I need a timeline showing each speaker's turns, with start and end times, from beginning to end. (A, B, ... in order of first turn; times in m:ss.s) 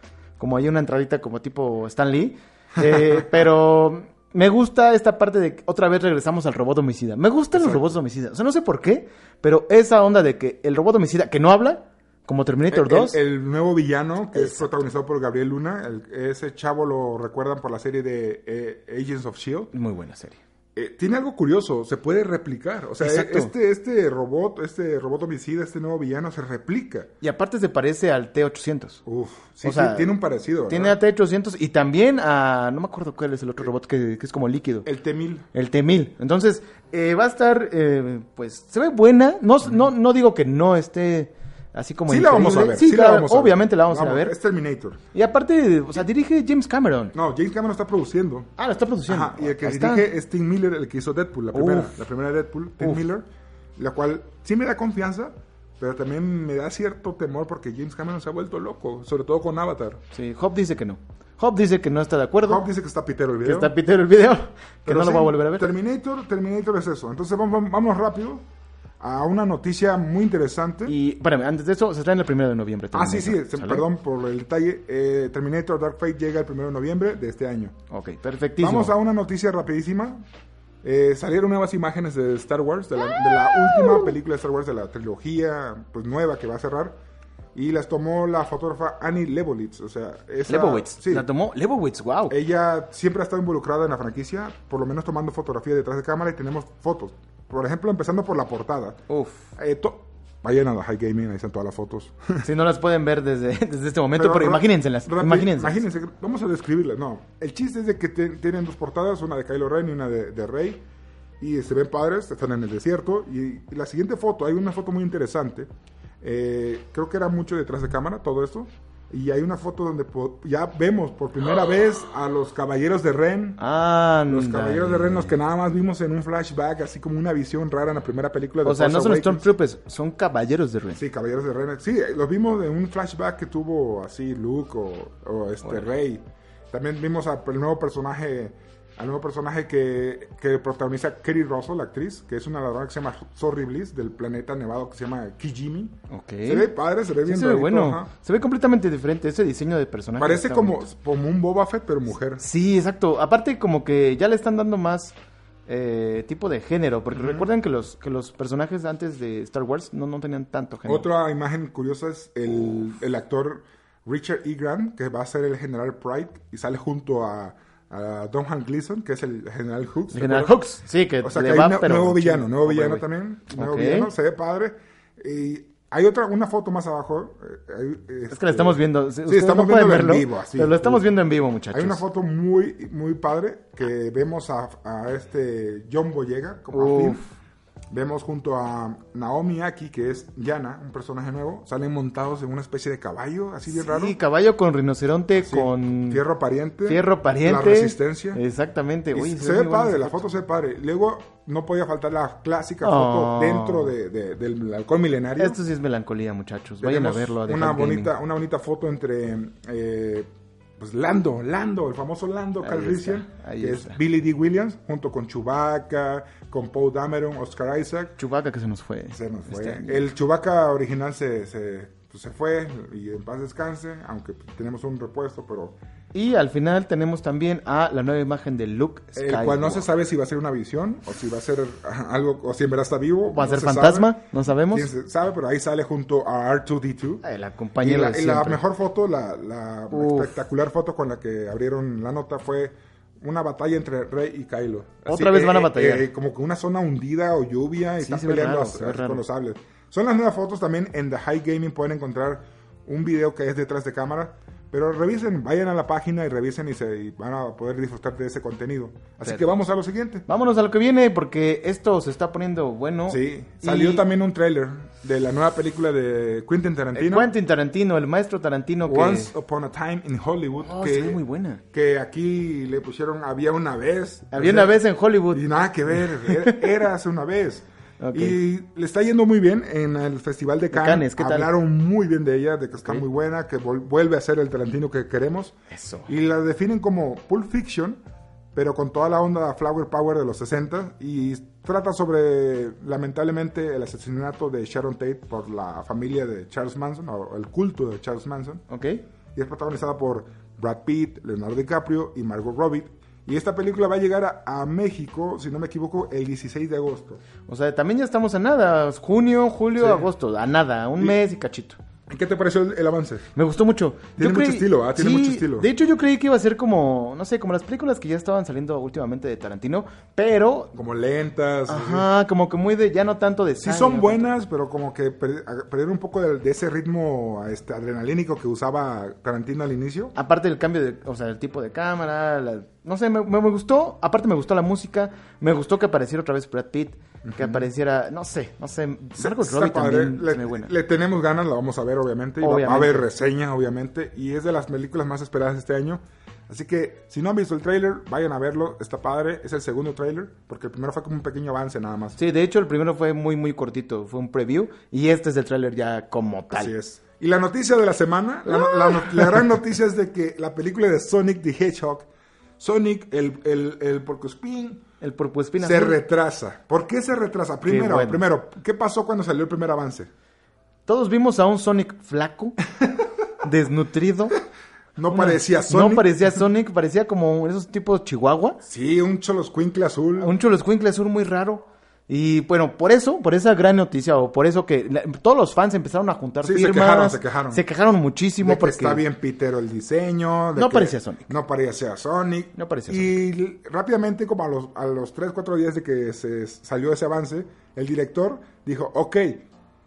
0:00.4-0:13.2 A
0:02.8-0:03.2 B
0:07.5-0:07.9 B
0:12.7-0:19.7 B
0:14.4-0:14.7 A
0:19.7-0:20.4 A
0:20.8-0:27.1 B
0:23.0-0:23.5 A
0:27.2-0:29.0 A
0:29.1-0:31.0 B
0:29.6-0:30.2 A
0:30.7-0:34.9 A
0:34.8-0:35.5 B
0:35.5-0:44.3 A
0:42.1-0:45.0 B
0:45.1-0:47.2 A
0:47.1-0:48.5 B
0:48.6-0:50.1 A
0:49.1-0:53.2 B
0:51.5-0:52.0 A
0:53.8-1:00.0 B
1:00.1-1:02.7 A
1:02.4-1:03.7 B
1:03.4-1:05.7 A
1:04.9-1:08.4 B
1:09.0-1:10.9 B
1:10.9-1:13.8 A
1:12.9-1:17.8 B
1:17.9-1:18.9 A
1:18.6-1:20.2 B
1:20.8-1:27.0 B
1:27.6-1:31.3 B
1:30.5-1:32.4 A
1:32.3-1:39.0 B
1:39.1-1:39.5 A
1:39.6-1:42.4 B
1:42.4-1:45.8 A
1:44.1-1:50.8 B
1:51.4-1:55.7 B
1:56.2-2:03.6 B
2:03.6-2:05.3 A
2:04.3-2:09.5 B
2:08.6-2:11.0 A
2:11.0-2:28.1 B
2:26.1-2:26.7 A
2:27.2-2:30.8 A
2:30.2-2:32.4 B
2:32.4-2:35.1 A
2:35.7-2:41.1 A
2:37.1-2:37.5 B
2:40.9-2:50.6 B
2:50.1-2:54.1 A
2:51.2-3:01.1 B
2:58.3-3:02.0 A
3:01.7-3:07.2 B
3:06.7-3:07.3 A
3:07.9-3:14.2 B
3:13.7-3:16.2 A
3:15.4-3:18.4 B
3:16.9-3:20.3 A
3:19.1-3:25.6 B
3:22.8-3:23.9 A
3:25.4-3:28.1 A
3:26.8-3:38.2 B
3:32.6-3:34.0 A
3:38.2-3:40.0 A
3:39.1-3:45.8 B
3:46.1-3:49.9 A
3:49.2-3:54.2 B
3:53.4-3:54.9 A
3:54.7-3:57.2 B
3:57.2-3:58.6 A
3:57.8-4:20.3 B
3:59.9-4:00.3 A
4:05.1-4:06.1 A
4:08.0-4:09.2 A
4:20.3-4:24.0 A
4:23.1-4:27.3 B
4:27.0-4:29.3 A
4:28.9-4:31.2 B
4:30.6-4:31.6 A
4:31.7-4:34.8 B
4:34.3-4:35.4 A
4:35.3-4:45.6 B
4:36.0-4:36.6 A
4:38.0-4:38.4 A
4:40.7-4:41.5 A
4:45.7-4:46.1 A
4:46.1-4:48.0 B
4:48.6-4:58.6 B
4:58.7-4:59.0 A
4:59.4-5:07.2 B
5:07.5-5:11.8 A
5:09.8-5:10.1 B
5:12.1-5:13.3 B
5:13.4-5:20.7 A
5:14.2-5:15.7 B
5:20.7-5:22.1 B
5:21.7-5:24.3 A
5:23.6-5:30.1 B
5:30.2-5:40.7 A
5:37.2-5:37.7 B
5:39.2-5:52.2 B
5:42.4-5:43.1 A
5:52.2-5:56.7 A
5:56.5-6:02.1 B
5:58.7-5:59.1 A
6:02.6-6:04.8 B
6:05.0-6:06.0 A
6:05.6-6:10.1 B
6:07.6-6:08.2 A
6:10.9-6:12.6 A
6:13.4-6:14.4 A
6:15.0-6:16.2 B
6:15.1-6:18.6 A
6:18.6-6:20.3 B
6:20.2-6:29.0 A
6:26.4-6:27.6 B
6:28.4-6:39.5 B
6:30.6-6:31.3 A
6:32.6-6:33.2 A